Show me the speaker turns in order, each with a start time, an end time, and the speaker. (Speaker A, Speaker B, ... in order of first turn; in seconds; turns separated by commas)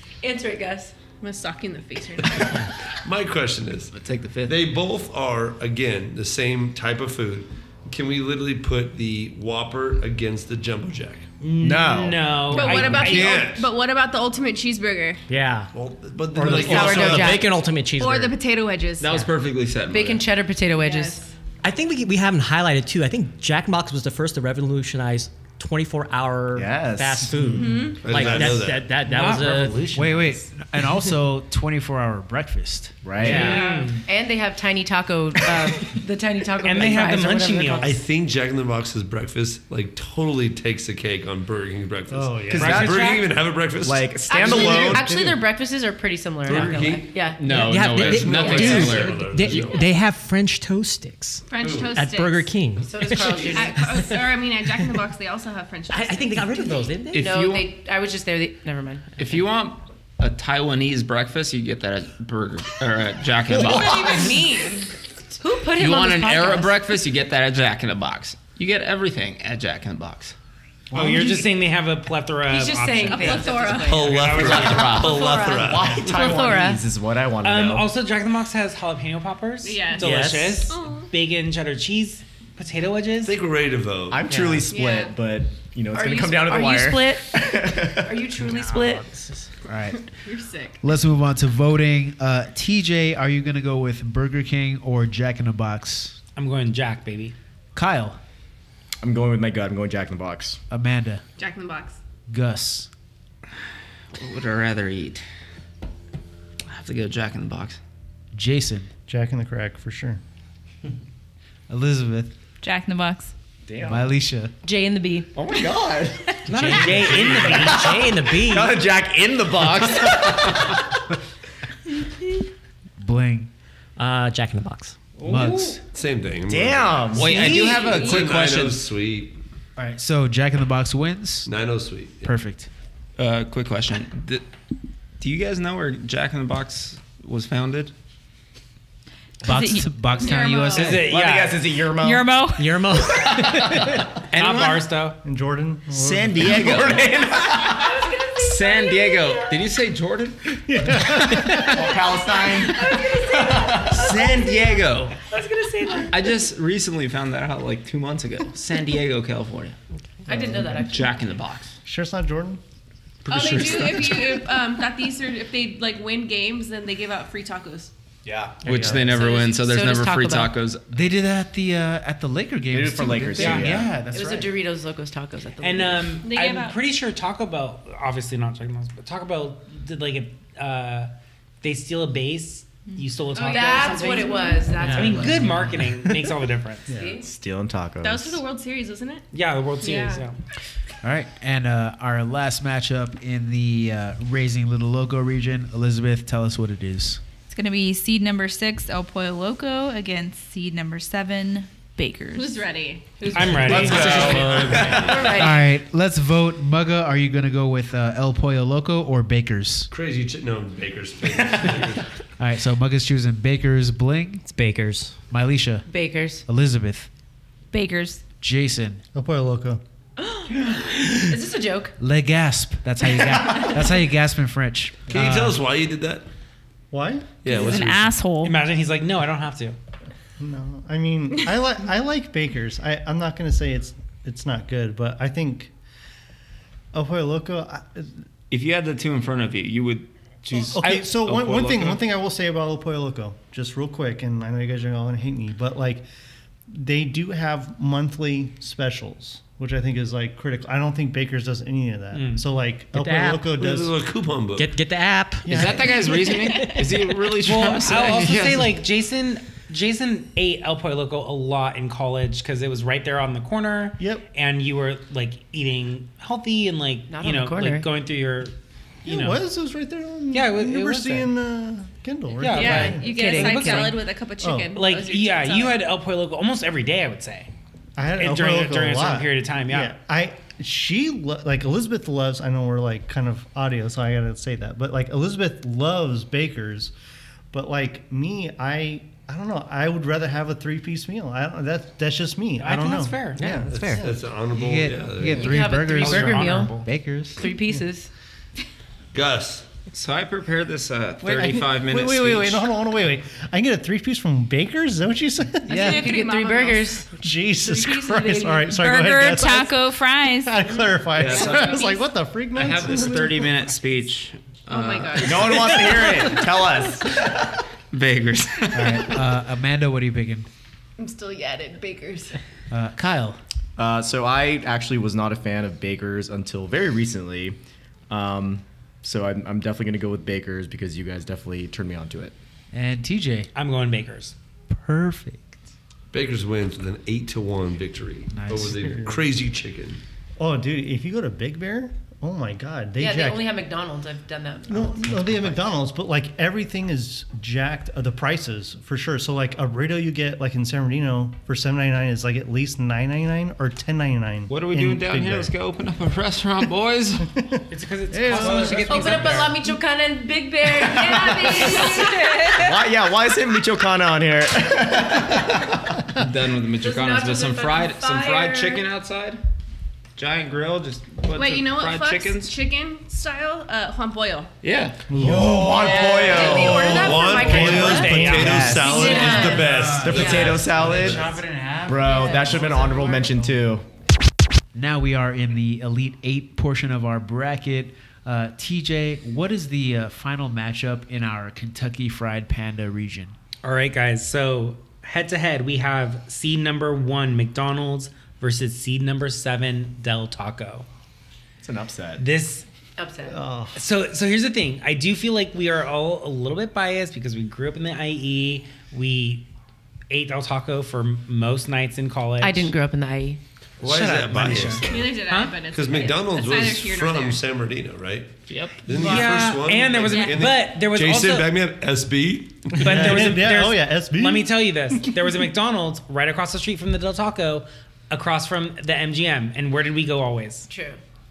Speaker A: 0.2-0.9, Speaker B: 1.2-2.7, Speaker C: 2.4-11.3, Speaker D: 3.9-4.5, Speaker E: 11.4-13.5, Speaker F: 11.6-12.6, Speaker B: 12.5-15.2, Speaker C: 12.8-13.7, Speaker G: 15.3-15.7, Speaker C: 15.7-17.4, Speaker F: 16.4-17.1, Speaker A: 16.4-17.4, Speaker G: 16.4-18.4, Speaker B: 17.9-19.2, Speaker D: 19.0-20.3, Speaker A: 19.9-21.2, Speaker B: 20.7-21.3, Speaker G: 21.6-29.9, Speaker F: 26.5-28.0, Speaker B: 27.5-28.0, Speaker C: 28.0-28.9, Speaker E: 28.2-30.4, Speaker H: 29.9-33.0, Speaker F: 33.0-33.6, Speaker G: 33.2-33.5, Speaker E: 33.2-34.0, Speaker B: 33.3-34.0, Speaker A: 33.3-38.0, Speaker E: 36.6-38.0, Speaker C: 37.8-45.0, Speaker I: 42.1-43.0, Speaker F: 42.5-43.2, Speaker E: 42.5-43.3, Speaker F: 43.8-45.3, Speaker A: 44.3-47.4, Speaker I: 45.0-45.3, Speaker C: 46.5-47.2, Speaker D: 46.5-49.6, Speaker G: 47.5-55.0, Speaker C: 47.9-49.9, Speaker A: 48.4-48.9, Speaker B: 51.5-52.5, Speaker C: 51.6-51.9, Speaker A: 52.8-54.1, Speaker B: 53.3-56.9, Speaker G: 55.9-57.3, Speaker D: 57.1-57.7, Speaker A: 57.1-59.1, Speaker D: 59.2-64.3, Speaker B: 63.5-64.9, Speaker A: 65.4-66.8, Speaker D: 65.7-70.3, Speaker E: 70.9-75.0, Speaker F: 70.9-71.3, Speaker A: 72.5-76.8, Speaker B: 73.1-74.2, Speaker C: 73.8-76.3, Speaker D: 74.4-75.2, Speaker F: 75.5-77.9, Speaker E: 77.4-83.3, Speaker B: 79.6-81.1, Speaker G: 80.0-80.7, Speaker C: 83.2-84.2, Speaker F: 84.1-88.3, Speaker G: 84.3-84.6, Speaker B: 84.7-85.2, Speaker A: 85.9-89.1, Speaker G: 88.4-89.5, Speaker H: 89.7-90.0, Speaker B: 89.9-90.8, Speaker H: 90.8-96.2, Speaker E: 96.3-97.3, Speaker H: 97.7-98.2, Speaker F: 99.0-100.6, Speaker H: 100.7-101.2, Speaker B: 101.4-102.0, Speaker H: 102.3-102.9, Speaker D: 104.1-105.2, Speaker D: 106.7-107.8, Speaker H: 108.3-108.9, Speaker I: 109.1-110.2, Speaker H: 111.7-112.3, Speaker J: 112.6-113.3, Speaker F: 113.7-114.1, Speaker H: 113.8-114.5, Speaker A: 114.6-115.3, Speaker F: 115.3-121.0, Speaker G: 116.5-118.8, Speaker E: 116.5-118.0, Speaker H: 123.0-123.5, Speaker G: 124.0-125.1, Speaker E: 125.2-125.8, Speaker H: 125.2-125.8, Speaker C: 125.9-129.4, Speaker F: 126.5-127.5, Speaker D: 127.1-128.8, Speaker H: 129.8-131.5, Speaker C: 131.4-132.3, Speaker H: 132.2-132.7, Speaker D: 133.2-134.4, Speaker D: 135.2-137.9, Speaker H: 139.4-141.1, Speaker J: 139.4-139.9, Speaker B: 140.2-141.0, Speaker E: 140.8-141.6, Speaker F: 140.8-142.3, Speaker J: 141.8-142.8, Speaker G: 142.6-144.1, Speaker F: 143.2-144.0, Speaker D: 144.3-144.9, Speaker E: 144.3-145.2, Speaker I: 145.2-146.9, Speaker D: 145.9-147.1, Speaker F: 146.3-148.0, Speaker A: 147.6-149.6, Speaker D: 148.4-150.4, Speaker I: 150.7-151.9, Speaker F: 151.6-154.1, Speaker A: 152.5-154.8, Speaker D: 153.8-155.2, Speaker A: 155.3-156.2, Speaker D: 156.1-159.7, Speaker A: 160.3-161.1, Speaker I: 160.3-160.8, Speaker D: 160.8-161.7, Speaker I: 161.8-162.6, Speaker B: 163.3-167.9, Speaker G: 163.3-164.3, Speaker F: 168.2-168.7, Speaker D: 168.6-170.8, Speaker I: 168.7-169.0, Speaker A: 168.9-170.5, Speaker H: 170.9-174.5, Speaker F: 172.7-173.9, Speaker E: 173.4-173.8, Speaker A: 174.1-176.2, Speaker E: 175.6-187.0, Speaker B: 176.2-176.8, Speaker B: 183.3-184.6, Speaker A: 183.3-185.8, Speaker G: 184.8-185.8, Speaker I: 186.9-187.2, Speaker A: 186.9-187.2, Speaker F: 187.2-188.4, Speaker B: 188.0-189.2, Speaker E: 189.3-190.4, Speaker B: 189.8-190.2, Speaker H: 191.0-197.2, Speaker J: 197.5-202.6, Speaker B: 202.3-203.9, Speaker E: 203.3-204.5, Speaker C: 203.7-205.5, Speaker G: 203.7-204.9, Speaker F: 203.8-205.1, Speaker A: 204.0-205.7, Speaker H: 205.3-209.9, Speaker C: 209.9-212.0, Speaker H: 212.4-214.5, Speaker G: 214.4-215.2, Speaker H: 215.3-215.9, Speaker A: 215.9-216.4, Speaker H: 216.4-217.1, Speaker J: 217.7-218.2, Speaker H: 218.4-219.0, Speaker I: 219.1-219.8, Speaker A: 220.2-221.9, Speaker H: 222.0-225.6, Speaker C: 225.1-226.2, Speaker I: 226.9-227.3, Speaker C: 227.4-228.1, Speaker J: 227.4-228.6, Speaker E: 228.4-229.8, Speaker I: 230.4-235.7, Speaker I: 236.9-238.1, Speaker D: 238.5-242.0, Speaker I: 240.7-246.0, Speaker E: 240.8-241.1, Speaker I: 246.7-254.0, Speaker E: 252.1-252.4, Speaker G: 252.9-253.5, Speaker C: 253.6-254.8, Speaker G: 254.6-255.7, Speaker I: 255.4-256.3, Speaker D: 255.5-258.8, Speaker G: 256.6-256.9, Speaker E: 257.3-268.5, Speaker I: 264.0-264.2, Speaker A: 267.1-267.9, Speaker E: 269.0-269.4, Speaker I: 269.0-273.7, Speaker E: 270.3-271.3, Speaker E: 272.4-274.1, Speaker B: 272.5-275.8, Speaker A: 272.6-273.8, Speaker I: 274.4-274.7, Speaker E: 274.7-277.5, Speaker I: 278.0-286.9, Speaker E: 278.2-279.9, Speaker I: 287.5-294.1, Speaker E: 292.6-293.6, Speaker G: 293.4-294.1, Speaker C: 293.7-295.6, Speaker H: 294.5-297.4, Speaker A: 295.2-296.8, Speaker E: 295.9-296.9, Speaker A: 297.4-298.1, Speaker I: 297.5-297.8, Speaker C: 299.1-299.6, Speaker D: 299.9-302.6, Speaker I: 301.2-306.1, Speaker B: 305.6-307.0, Speaker A: 305.7-308.7, Speaker I: 307.1-313.5, Speaker J: 308.7-310.6, Speaker D: 311.1-311.8, Speaker B: 311.2-312.0, Speaker D: 312.5-316.1, Speaker B: 314.7-316.4, Speaker F: 315.2-317.4, Speaker D: 317.9-319.2, Speaker H: 318.7-320.5, Speaker B: 321.0-322.4, Speaker H: 322.7-323.4, Speaker F: 323.8-327.6, Speaker F: 328.1-332.3, Speaker H: 332.7-333.5, Speaker E: 333.5-334.3, Speaker H: 334.7-335.6, Speaker C: 336.1-340.0, Speaker H: 338.3-338.9, Speaker I: 338.8-339.2, Speaker I: 340.4-343.5, Speaker A: 343.0-345.7, Speaker I: 344.7-355.5, Speaker D: 354.5-357.3, Speaker I: 357.3-359.2, Speaker E: 357.7-359.7, Speaker A: 358.5-362.8, Speaker I: 360.9-361.8, Speaker F: 361.2-361.5, Speaker B: 361.8-362.5, Speaker F: 362.5-365.8, Speaker D: 366.1-369.4, Speaker A: 366.8-368.9, Speaker D: 370.1-372.6, Speaker B: 371.3-374.5, Speaker D: 374.6-375.1, Speaker I: 375.1-375.7, Speaker F: 375.2-377.0, Speaker A: 375.5-380.6, Speaker I: 376.5-379.3, Speaker C: 376.5-380.7, Speaker E: 377.5-379.2, Speaker F: 378.4-379.2, Speaker H: 379.0-383.1, Speaker F: 379.9-381.3, Speaker F: 381.9-383.8, Speaker A: 382.1-382.6, Speaker H: 384.7-393.3, Speaker E: 393.6-400.9, Speaker F: 401.6-402.2, Speaker E: 402.2-402.6, Speaker A: 403.0-403.4, Speaker I: 403.3-403.8, Speaker E: 403.7-409.4, Speaker E: 410.1-412.7, Speaker A: 412.4-413.4, Speaker C: 413.8-423.1, Speaker E: 413.8-415.6, Speaker B: 414.8-417.4, Speaker D: 418.5-418.9, Speaker E: 418.9-421.5, Speaker B: 420.0-420.4, Speaker E: 422.8-430.7, Speaker I: 422.8-425.3, Speaker A: 430.7-431.0